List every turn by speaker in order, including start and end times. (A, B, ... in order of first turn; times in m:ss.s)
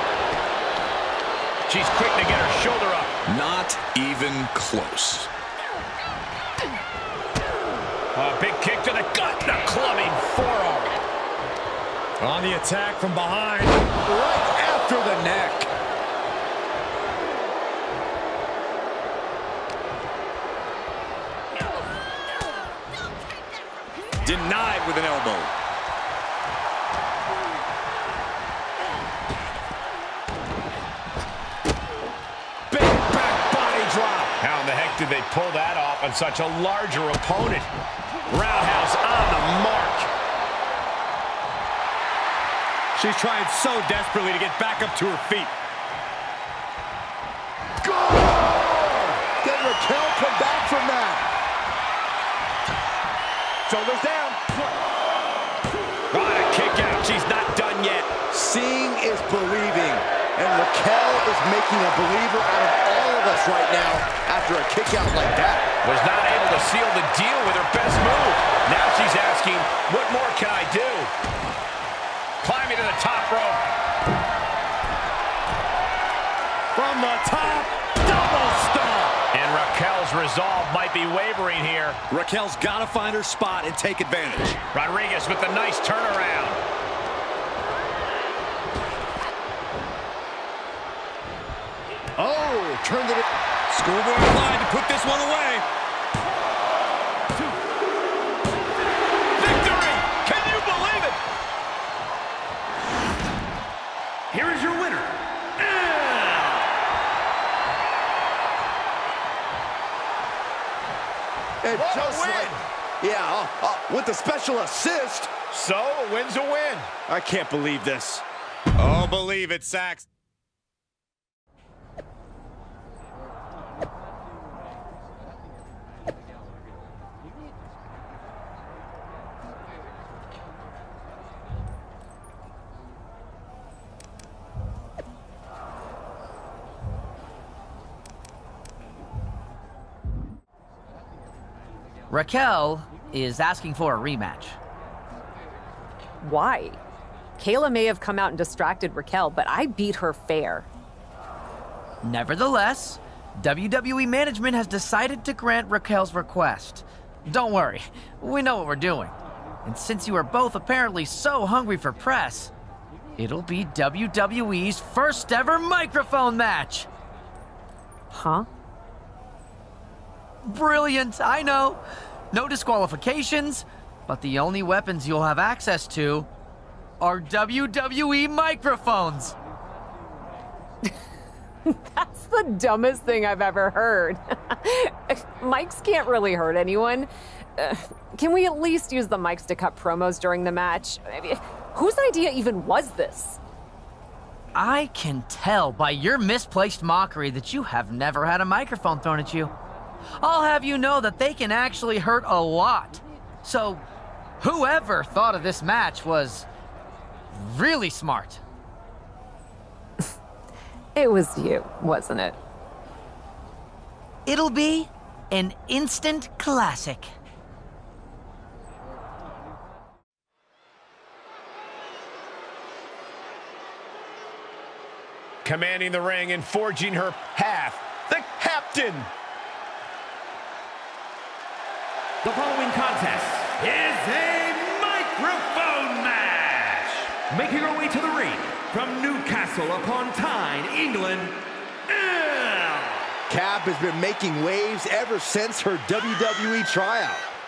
0:01.7-0:03.1 A
0:03.3-0:05.3 B
0:08.1-0:11.0 A
0:12.2-0:13.8 B
0:14.0-0:15.7 C
0:24.2-0:25.5 B
0:32.7-0:37.7 A
0:38.3-0:40.1 A
0:43.0-0:45.6 B
0:47.8-0:51.3 C
0:53.7-0:54.6 C
0:56.1-0:58.1 A
0:58.3-1:05.7 C
1:05.8-1:11.1 A
1:12.4-1:13.6 A
1:16.8-1:19.2 B
1:19.3-1:22.0 A
1:22.1-1:24.6 B
1:24.7-1:26.6 A
1:32.2-1:33.2 C
1:33.7-1:35.6 B
1:39.4-1:41.2 A
1:44.3-1:46.7 D
1:51.6-1:55.3 C
1:51.7-1:52.6 A
1:55.5-1:56.9 A
1:57.1-1:58.2 C
1:58.8-2:00.1 B
2:22.1-2:24.6 E
2:26.2-2:26.8 F
2:27.4-2:30.7 F
2:32.0-2:39.1 E
2:39.6-2:42.5 E
2:43.2-2:46.9 E
2:48.1-2:48.5 F
2:50.5-2:51.8 E
2:52.3-2:56.3 E
2:57.0-2:59.4 E
3:01.6-3:13.4 F
3:14.6-3:19.5 E
3:20.2-3:23.8 E
3:24.4-3:26.5 E
3:27.3-3:28.4 E
3:31.0-3:32.4 F
3:34.3-3:37.1 E
3:45.4-3:49.1 A
3:52.2-4:03.1 D
4:03.3-4:07.3 C